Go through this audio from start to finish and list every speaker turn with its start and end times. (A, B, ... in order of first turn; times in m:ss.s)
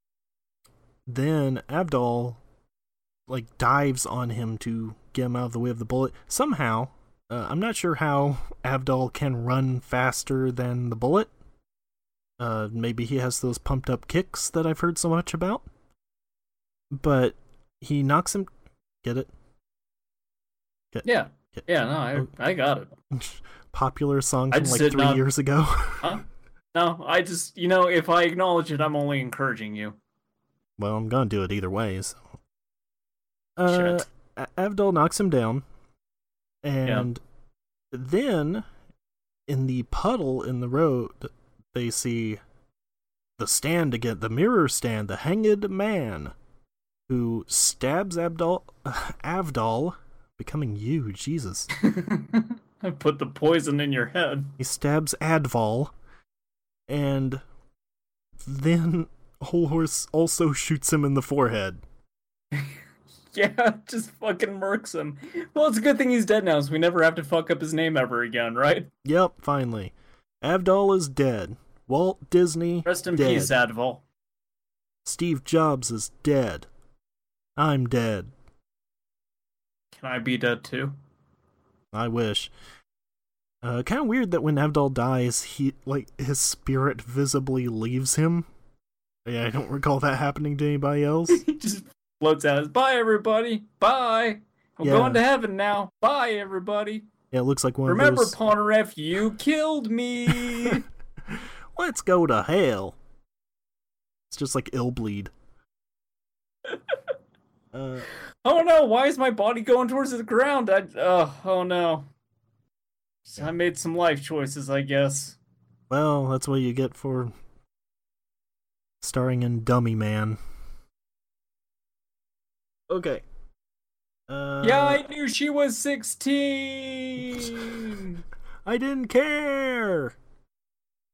0:01.1-0:02.4 A
0:03.3-0:11.3 A
0:12.4-0:15.6 A
0:16.9-0:18.5 A
0:19.0-0:19.3 A
0:20.9-0:22.3 A
0:21.0-0:23.0 B
0:23.1-0:26.1 A
0:24.5-0:25.2 B
0:26.0-0:30.0 B
0:30.8-0:32.2 A
0:33.6-0:35.6 A
0:33.7-0:34.0 B
0:36.6-0:37.2 A
0:37.9-0:38.6 A
0:39.5-0:42.4 A
0:43.4-0:46.3 A
0:47.1-0:51.7 A
0:51.8-0:54.5 B
0:54.6-0:55.9 A
0:56.9-0:57.4 A
0:58.4-1:01.8 A
1:03.3-1:08.9 B
1:09.0-1:13.5 A
1:12.8-1:14.0 B
1:15.0-1:16.7 A
1:17.6-1:18.3 A
1:19.9-1:21.0 B
1:21.9-1:22.5 A
1:23.6-1:28.5 A
1:29.2-1:31.4 A
1:31.3-1:37.1 B
1:34.8-1:35.2 A
1:37.3-1:38.4 A
1:37.8-1:40.8 B
1:40.3-1:43.0 A
1:44.3-1:45.3 A
1:47.7-1:48.1 A
1:48.4-1:52.1 B
1:53.2-1:55.4 B
1:55.9-1:57.3 A
1:59.0-2:00.4 A
2:02.9-2:03.2 A
2:04.3-2:05.0 A
2:04.6-2:08.2 B
2:08.6-2:10.1 A